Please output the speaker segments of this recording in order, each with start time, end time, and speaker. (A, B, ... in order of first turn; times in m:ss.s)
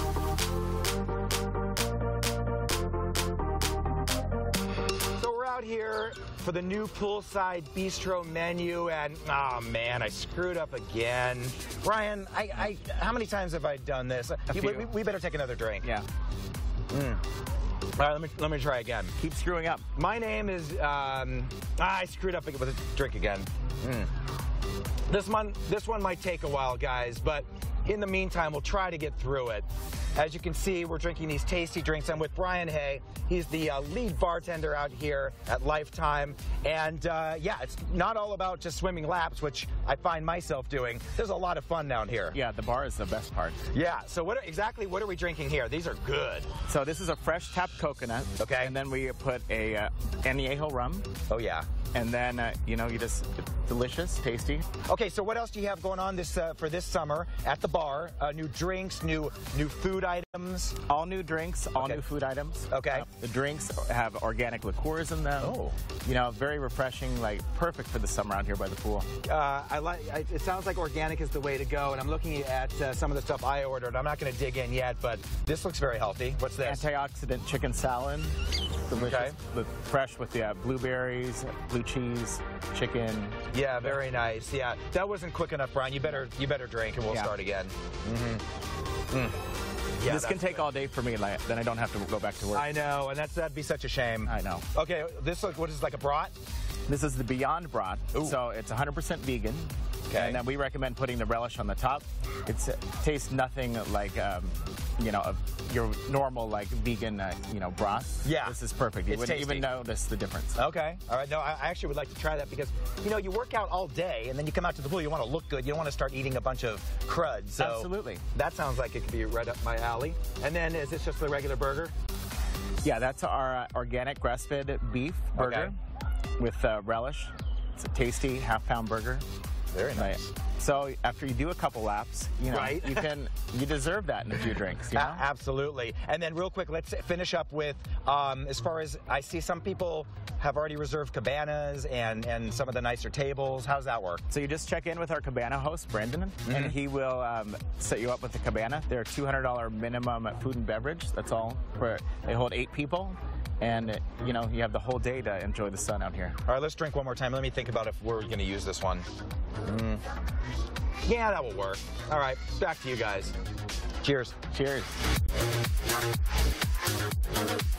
0:05.2-0:15.9 A
0:14.5-0:14.9 B
0:16.9-0:17.2 A
0:18.0-0:19.1 A
0:19.2-0:19.8 B
0:19.9-0:24.1 A
0:25.1-0:42.4 A
0:42.3-0:43.6 B
0:43.7-0:46.5 A
0:46.6-0:51.1 B
0:48.4-0:48.7 A
0:51.3-0:51.7 A
0:51.9-0:54.7 B
0:54.8-1:00.8 A
1:00.9-1:09.1 B
1:01.8-1:02.0 A
1:02.7-1:03.0 A
1:05.4-1:05.7 A
1:09.2-1:16.9 A
1:16.6-1:18.3 B
1:18.9-1:23.4 B
1:18.9-1:19.4 A
1:23.5-1:28.4 A
1:29.1-1:29.4 A
1:30.0-1:30.7 A
1:30.0-1:32.7 B
1:32.5-1:36.3 A
1:34.2-1:34.6 B
1:36.9-1:50.6 B
1:40.1-1:40.4 A
1:48.2-1:49.7 A
1:50.6-2:01.9 A
1:57.6-1:58.2 B
2:02.8-2:05.7 B
2:05.3-2:05.7 A
2:06.4-2:09.2 B
2:09.7-2:10.3 A
2:10.0-2:15.2 B
2:12.5-2:13.1 A
2:14.9-2:24.2 A
2:24.3-2:36.4 B
2:26.5-2:26.8 A
2:36.5-2:39.1 A
2:39.6-2:40.0 A
2:41.0-2:43.3 A
2:44.0-2:44.4 A
2:44.5-2:45.0 B